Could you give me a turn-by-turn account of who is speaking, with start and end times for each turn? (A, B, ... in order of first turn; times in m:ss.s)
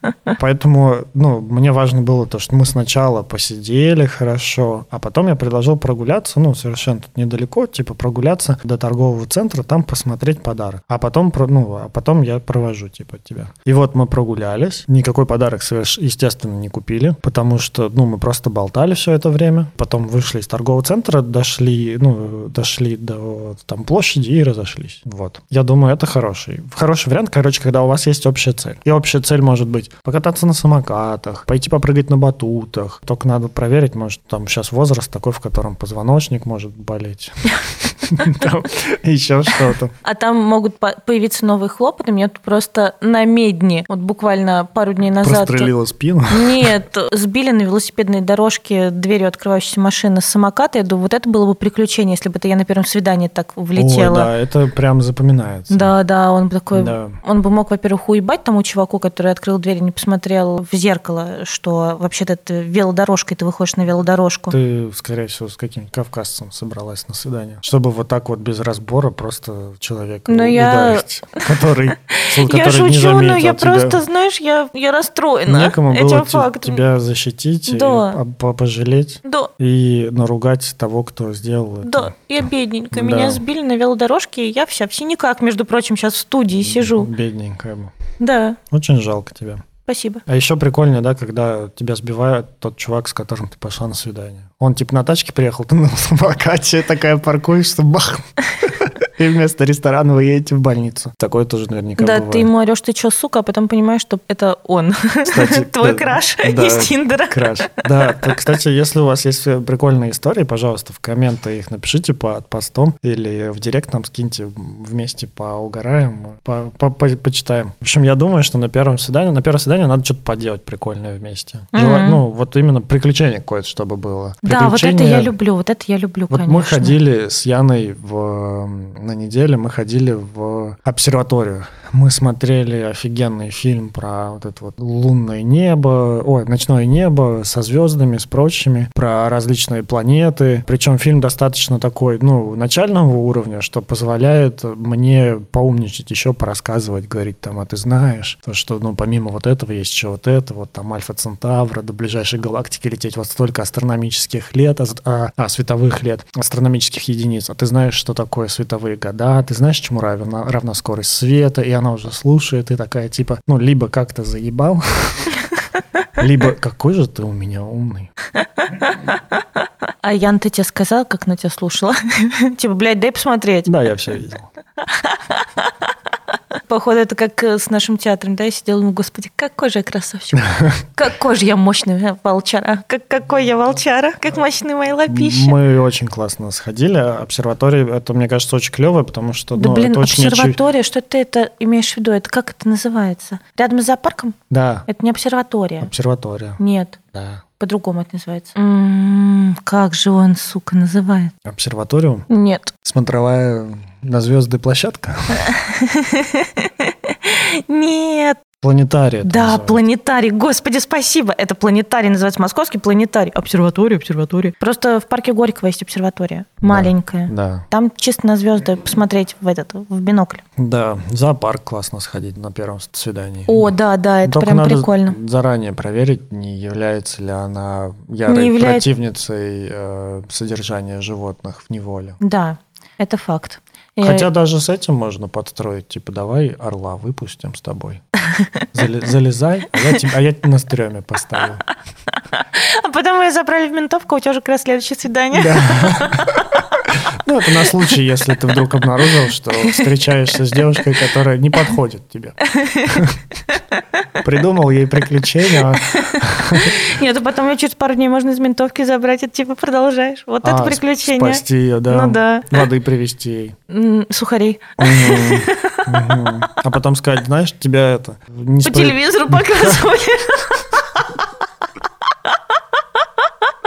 0:00.3-0:39.9 A
0:40.0-0:45.7 B
0:45.2-0:46.7 A
0:46.3-0:54.3 B
0:53.7-0:55.9 A
0:55.7-1:04.5 B
0:56.7-0:57.2 A
1:04.5-1:14.0 A
1:10.3-1:11.6 B
1:12.1-1:16.8 B
1:15.5-1:22.1 A
1:17.7-1:18.2 B
1:19.2-1:19.5 B
1:21.8-1:27.1 B
1:22.9-1:23.4 A
1:26.6-1:27.9 A
1:28.2-1:28.6 B
1:28.7-1:29.6 A
1:29.8-1:30.2 B
1:30.2-1:42.5 A
1:42.0-1:48.4 B
1:45.3-2:05.3 A
2:01.7-2:02.2 B
2:04.4-2:07.0 B
2:06.3-2:45.4 A
2:46.2-2:48.1 A
2:50.0-2:53.7 B
2:53.6-2:54.5 A
2:54.8-2:55.7 B
2:56.5-3:05.6 B
3:00.4-3:00.8 A
3:05.1-3:10.6 A
3:09.5-3:15.9 B
3:14.5-3:14.9 A
3:15.8-3:16.6 A
3:16.6-3:17.0 B
3:17.1-3:17.4 A
3:17.6-3:21.3 B
3:21.4-3:22.3 A
3:22.3-3:22.7 B
3:22.8-3:25.5 A
3:25.4-3:28.4 B
3:28.6-3:29.8 A
3:29.2-3:40.4 B
3:36.6-3:37.6 A
3:40.6-3:43.7 A
3:43.5-3:45.2 B
3:44.2-3:52.2 A
3:48.2-3:48.9 B
3:52.2-3:54.3 B
3:54.0-3:58.0 A
3:58.3-3:58.6 B
3:58.7-4:01.6 A
4:02.1-4:06.5 B
4:05.3-4:13.2 A
4:07.6-4:07.9 B
4:09.6-4:09.9 B
4:12.4-4:13.6 B
4:14.2-4:16.9 A
4:15.7-4:22.6 B
4:20.4-4:23.6 A
4:23.7-4:26.3 B
4:24.8-4:29.8 A
4:28.6-4:31.1 B
4:32.3-4:33.3 B